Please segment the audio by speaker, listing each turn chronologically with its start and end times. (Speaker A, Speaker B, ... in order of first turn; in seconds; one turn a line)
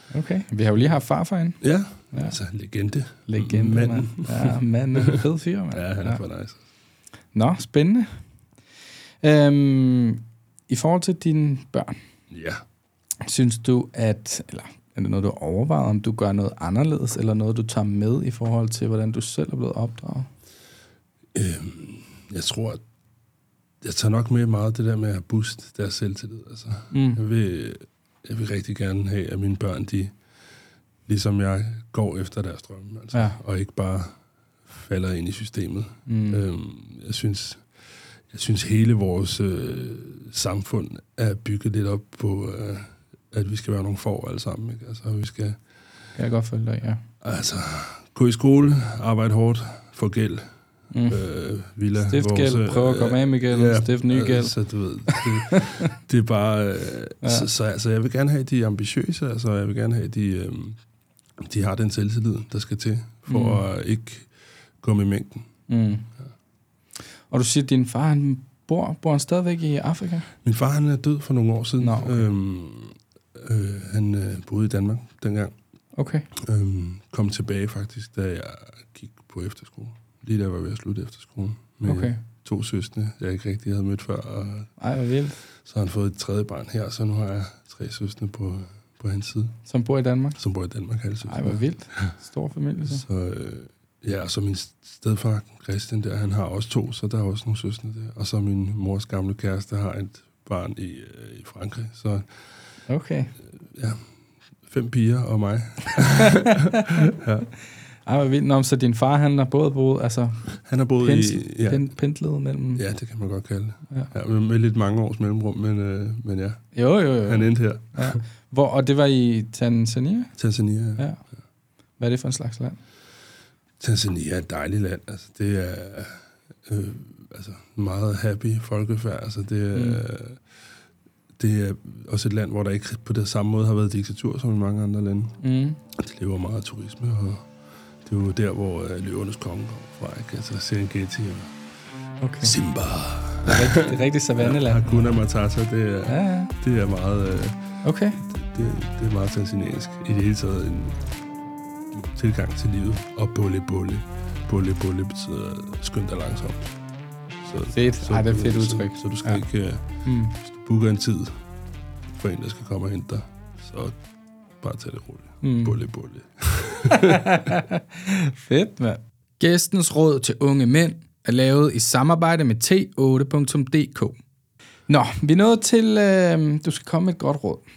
Speaker A: 0.1-2.4
Speaker B: 1.6-5.2
Speaker A: 3.3-6.2
Speaker B: 5.7-6.6
Speaker A: 7.3-8.1
Speaker A: 9.2-11.9
Speaker B: 12.3-12.6
Speaker A: 13.2-20.3
Speaker B: 21.3-22.8
Speaker B: 23.8-30.1
Speaker A: 26.9-27.2
Speaker B: 31.1-34.1
Speaker A: 33.1-33.4
Speaker B: 34.7-37.6
Speaker A: 36.1-36.4
Speaker B: 38.3-45.6
Speaker A: 46.2-47.0
Speaker B: 47.2-50.5
Speaker A: 50.9-51.2
Speaker B: 51.1-60.8
Speaker A: 52.0-54.5
Speaker A: 55.1-55.9
Speaker A: 57.2-57.5
Speaker B: 61.4-64.3
Speaker A: 63.3-63.6
Speaker B: 64.8-65.5
Speaker A: 65.7-66.1
Speaker A: 67.3-70.3
Speaker B: 70.4-75.5
Speaker A: 71.8-72.2
Speaker A: 76.0-76.3
Speaker B: 76.4-84.7
Speaker A: 81.8-82.2
Speaker A: 84.8-85.4
Speaker B: 85.6-89.5
Speaker A: 89.7-90.4
Speaker B: 90.4-92.1
Speaker A: 91.3-93.0
Speaker B: 92.9-102.3
Speaker A: 102.9-103.3
Speaker B: 103.7-104.0
Speaker B: 104.7-107.5
Speaker A: 106.2-107.1
Speaker A: 108.1-112.8
Speaker B: 110.6-111.9
Speaker B: 112.8-116.6
Speaker A: 116.8-120.3
Speaker B: 117.3-118.2
Speaker B: 120.4-121.0
Speaker A: 122.0-122.8
Speaker B: 123.8-130.4
Speaker A: 129.7-130.0
Speaker B: 131.4-135.4
Speaker A: 135.4-135.8
Speaker B: 135.9-137.5
Speaker B: 138.0-141.5
Speaker A: 142.2-142.6
Speaker B: 142.4-147.6
Speaker A: 143.4-145.1
Speaker A: 146.1-146.5
Speaker A: 147.8-148.2
Speaker B: 148.2-151.0
Speaker B: 151.9-156.8
Speaker B: 157.4-159.8
Speaker A: 157.7-159.4
Speaker A: 160.0-160.4
Speaker B: 160.4-161.4
Speaker B: 162.1-164.0
Speaker B: 164.6-167.5
Speaker A: 165.4-165.8
Speaker A: 166.9-174.2
Speaker A: 174.9-177.6